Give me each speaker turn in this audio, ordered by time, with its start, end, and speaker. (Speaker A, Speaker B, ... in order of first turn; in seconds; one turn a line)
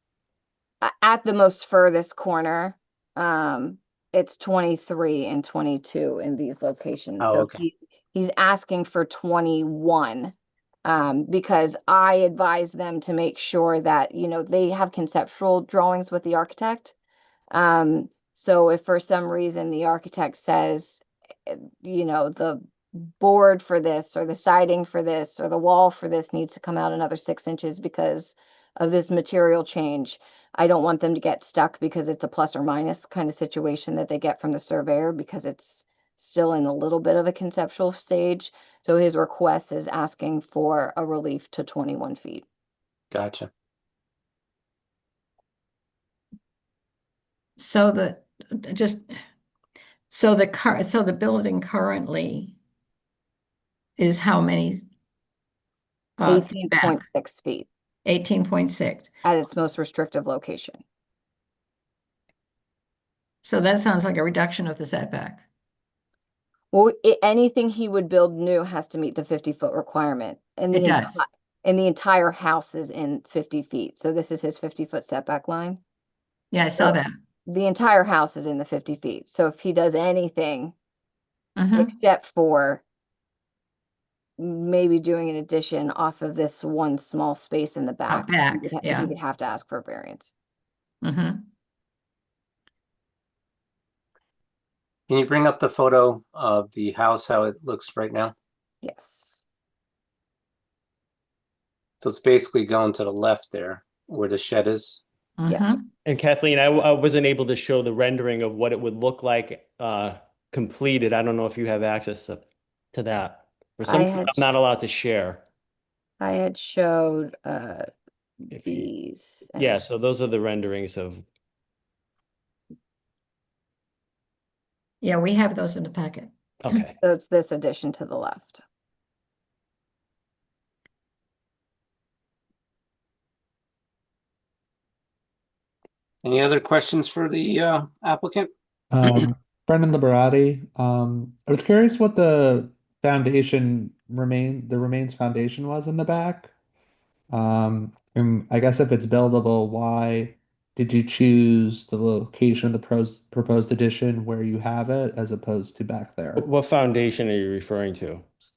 Speaker A: 0.8-16.9
Speaker B: 7.2-7.6
Speaker A: 17.5-42.5
Speaker B: 43.1-43.5
Speaker C: 47.6-49.1
Speaker C: 50.1-52.6
Speaker C: 54.0-54.9
Speaker C: 56.2-57.0
Speaker A: 56.2-57.7
Speaker C: 58.0-59.1
Speaker A: 59.2-60.8
Speaker C: 63.4-65.5
Speaker A: 66.7-75.8
Speaker C: 70.7-71.2
Speaker C: 76.5-77.1
Speaker A: 76.8-80.7
Speaker C: 81.6-81.9
Speaker A: 81.8-82.8
Speaker A: 84.4-90.3
Speaker C: 88.1-89.1
Speaker C: 91.0-91.5
Speaker B: 95.1-98.3
Speaker A: 98.8-99.4
Speaker B: 102.0-105.0
Speaker C: 105.4-105.9
Speaker A: 105.5-105.8
Speaker D: 106.0-115.4
Speaker A: 113.8-114.4
Speaker A: 116.2-117.8
Speaker A: 118.5-119.8
Speaker D: 118.5-118.9
Speaker D: 119.6-121.2
Speaker C: 125.0-126.3
Speaker D: 126.6-127.0
Speaker A: 127.0-128.6
Speaker B: 136.2-138.5
Speaker E: 138.9-146.5
Speaker E: 147.3-156.5
Speaker D: 156.4-158.2